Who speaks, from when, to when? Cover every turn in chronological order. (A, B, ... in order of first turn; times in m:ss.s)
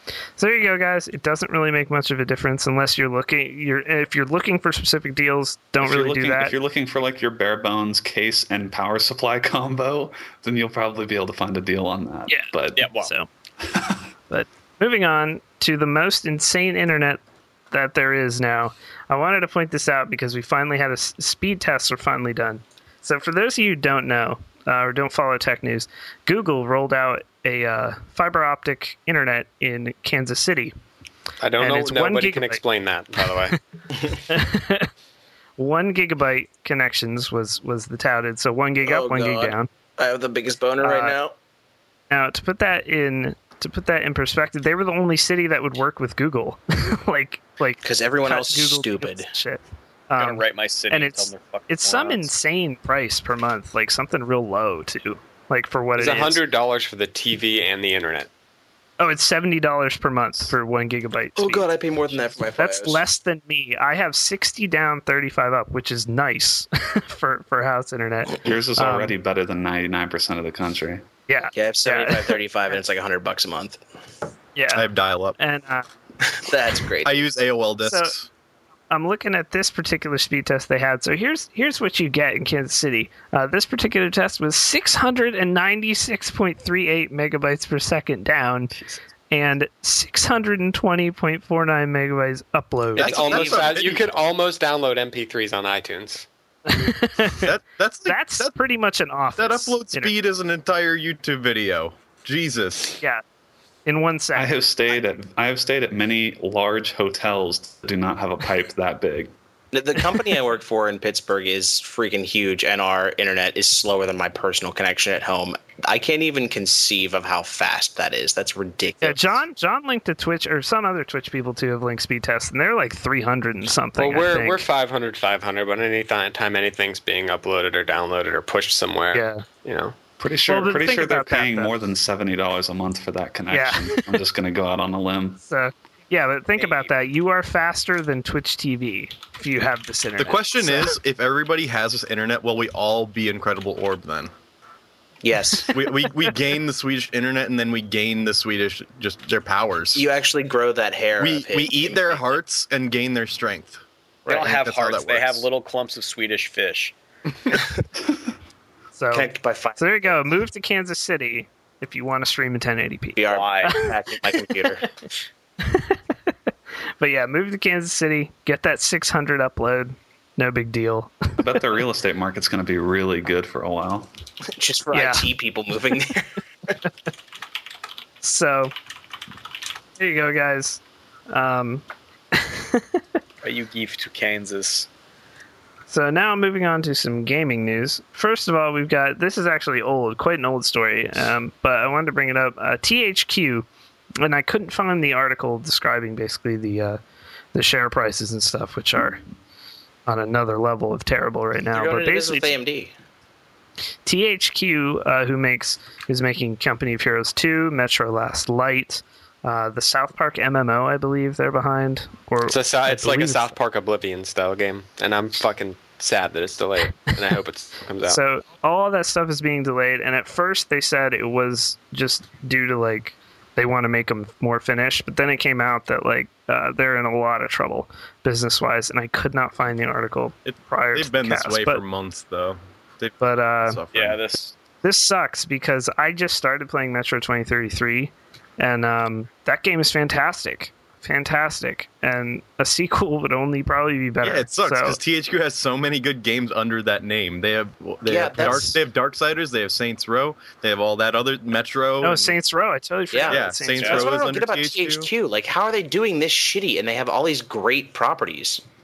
0:00.4-0:06.5 A
0:05.8-0:12.9 B
0:12.3-0:13.3 A
0:12.8-0:13.1 C
0:13.7-0:14.0 B
0:14.3-0:17.2 A
0:17.7-0:30.7 A
0:31.4-0:33.6 D
0:31.6-0:32.6 A
0:33.2-0:33.6 A
0:34.3-0:34.9 A
0:35.6-0:39.7 A
0:38.8-0:41.3 E
0:40.8-0:41.2 A
0:42.1-0:56.4 A
0:47.8-0:49.3 E
0:50.2-0:52.3 C
0:56.0-0:58.3 D
0:59.0-1:01.7 A
1:01.4-1:03.0 E
1:02.6-1:09.2 A
1:08.4-1:11.0 B
1:11.3-1:12.4 A
1:11.5-1:13.8 E
1:14.6-1:14.9 A
1:14.7-1:15.4 F
1:15.4-1:15.9 A
1:16.3-1:17.2 E
1:17.0-1:18.3 F
1:17.8-1:18.1 A
1:18.9-1:28.7 A
1:29.3-1:33.2 A
1:33.0-1:36.3 D
1:33.0-1:33.8 E
1:33.0-1:34.2 F
1:36.7-1:37.5 A
1:37.4-1:38.5 F
1:38.1-1:40.1 A
1:39.4-1:43.0 F
1:43.9-1:44.5 A
1:44.4-1:49.3 B
1:49.7-1:59.4 E
1:59.0-2:04.7 A
2:04.0-2:10.0 D
2:09.1-2:09.4 A
2:10.2-2:15.4 B
2:10.5-2:11.7 A
2:13.5-2:14.2 A
2:15.4-2:21.0 A
2:20.2-2:24.3 F
2:25.2-2:25.7 E
2:25.7-2:30.0 F
2:29.9-2:32.2 E
2:31.2-2:35.4 F
2:34.3-2:36.9 C
2:39.0-2:44.5 A
2:39.1-2:40.3 E
2:43.2-2:44.9 E
2:43.3-2:43.8 C
2:45.6-2:46.0 A
2:47.0-2:51.4 A
2:51.4-2:54.1 B
2:54.5-2:56.3 E
2:54.9-2:55.3 A
2:58.2-2:58.7 A
3:00.0-3:03.0 A
3:03.4-3:04.9 C
3:05.9-3:13.7 A
3:14.2-3:17.0 A
3:17.5-3:19.2 A
3:20.1-3:22.5 A
3:21.7-3:22.9 E
3:24.0-3:33.6 A
3:32.5-3:38.2 D
3:38.1-3:51.8 A
3:50.5-3:54.2 F
3:53.2-3:53.8 A
3:53.9-3:54.5 C
3:54.8-4:05.0 A
4:04.2-4:12.4 F
4:08.1-4:08.8 E
4:12.0-4:14.1 A
4:13.1-4:18.6 E
4:13.3-4:15.1 F
4:13.8-4:14.1 C